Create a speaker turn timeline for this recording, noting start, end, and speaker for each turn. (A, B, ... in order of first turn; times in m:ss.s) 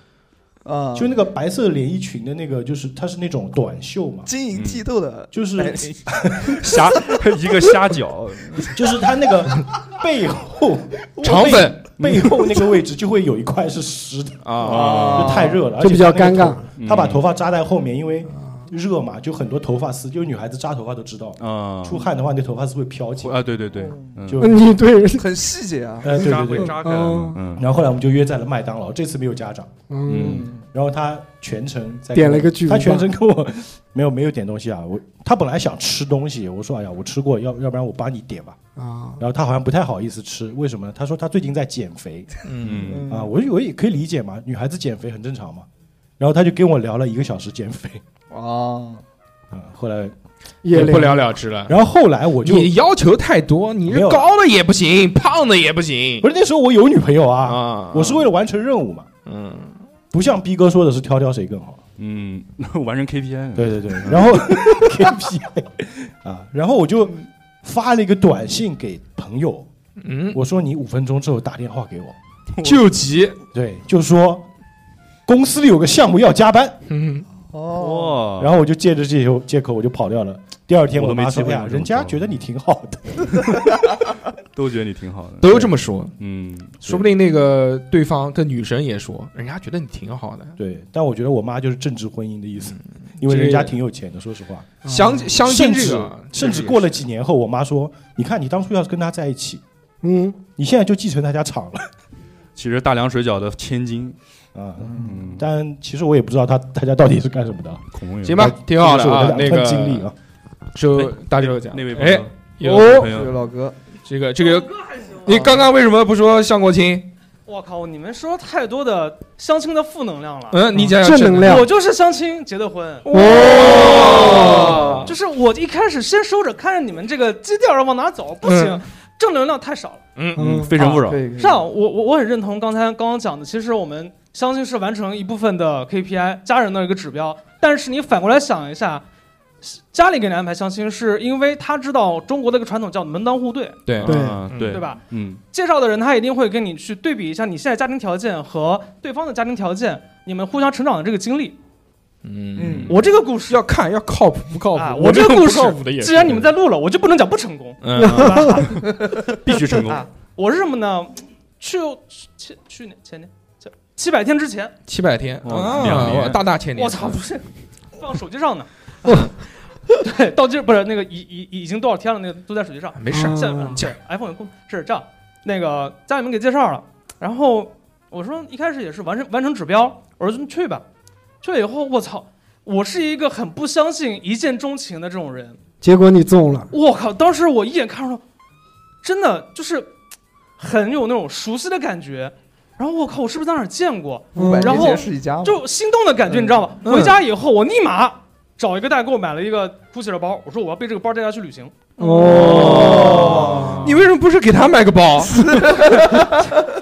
0:00.6-0:01.2 A
0:00.9-0:04.3 B
0:04.2-0:07.2 A
0:04.5-0:04.8 C
0:05.3-0:06.6 B
0:06.6-0:08.7 C
0:08.7-0:23.4 B
0:11.1-0:11.6 A
0:11.2-0:11.8 D
0:12.0-0:12.4 C
0:14.4-0:15.1 D
0:14.6-0:15.4 C
0:14.6-0:15.6 A
0:15.8-0:16.6 E
0:16.8-0:17.2 C
0:21.4-0:22.0 C
0:23.2-0:24.4 C
0:23.7-0:24.2 A
0:24.3-0:24.6 B
0:24.4-0:25.3 E
0:25.1-0:26.6 A
0:26.0-0:26.8 B
0:26.0-0:27.6 C
0:26.6-0:27.4 E
0:27.5-0:29.7 B
0:29.9-0:30.4 E
0:30.0-0:30.5 C
0:30.2-0:30.7 A
0:30.7-0:38.6 B
0:32.1-0:33.1 E
0:38.8-0:39.2 E
0:39.2-0:42.3 B
0:42.4-0:43.0 D
0:42.6-0:43.1 C
0:42.8-0:43.3 A
0:43.1-0:45.7 B
0:46.2-0:48.0 B
0:48.3-0:49.0 A
0:49.5-0:50.1 B
0:50.6-0:51.3 E
0:50.7-0:51.7 D
0:50.8-0:51.1 B
0:51.6-0:52.7 B
0:52.4-0:56.3 D
0:53.9-0:54.3 B
0:56.2-0:59.1 B
0:57.4-0:58.2 D
0:59.2-0:59.8 D
1:00.1-1:01.8 B
1:02.0-1:04.4 C
1:03.6-1:09.7 B
1:10.0-1:10.4 D
1:10.3-1:12.2 B
1:12.5-1:12.8 C
1:12.6-1:13.4 D
1:13.5-1:14.4 B
1:15.3-1:16.8 B
1:16.9-1:17.2 D
1:17.5-1:18.2 A
1:17.7-1:18.6 C
1:18.4-1:23.7 B
1:20.9-1:22.3 C
1:24.5-1:27.1 C
1:25.4-1:26.1 D
1:26.8-1:30.6 D
1:30.6-1:39.6 B
1:33.2-1:33.7 D
1:34.8-1:35.3 E
1:34.9-1:37.0 D
1:40.0-1:40.4 E
1:40.6-1:41.8 B
1:42.6-1:44.2 C
1:44.5-1:50.1 B
1:44.8-1:45.2 A
1:44.9-1:45.4 C
1:47.9-1:48.5 C
1:48.2-1:50.1 D
1:50.7-1:53.1 D
1:50.9-1:53.4 C
1:52.6-1:53.8 A
1:54.0-1:57.1 D
1:57.4-2:00.6 F
2:00.5-2:01.6 D
2:00.7-2:01.7 E
2:01.4-2:03.1 F
2:03.0-2:05.1 D
2:03.1-2:04.7 E
2:04.3-2:10.0 F
2:08.4-2:08.8 D
2:10.2-2:10.6 D
2:10.4-2:10.7 E
2:10.4-2:11.2 C
2:10.8-2:11.6 A
2:11.4-2:19.0 F
2:19.6-2:23.8 F
2:23.8-2:24.8 D
2:24.0-2:25.4 C
2:24.0-2:24.4 E
2:24.7-2:31.6 F
2:32.2-2:32.9 D
2:32.6-2:33.0 A
2:32.6-2:33.0 C
2:32.9-2:33.6 F
2:33.5-2:36.4 D
2:34.7-2:39.2 F
2:37.8-2:38.5 D
2:38.0-2:38.5 E
2:38.1-2:38.4 C
2:39.4-2:40.0 C
2:39.8-2:44.7 F
2:44.9-2:47.2 D
2:45.4-2:46.4 C
2:46.7-2:47.4 F
2:48.0-2:49.3 F
2:50.0-3:00.8 F
2:53.0-2:53.9 D
2:53.1-2:53.8 E
3:01.4-3:05.6 F
3:05.8-3:06.7 E
3:06.7-3:08.2 F
3:09.0-3:09.9 F
3:10.6-3:22.3 F
3:14.3-3:14.9 E
3:14.3-3:15.6 A
3:16.3-3:16.6 A
3:16.8-3:17.2 D
3:22.0-3:25.5 D
3:22.0-3:23.0 E
3:22.3-3:24.0 C
3:22.7-3:23.8 A
3:25.2-3:26.6 A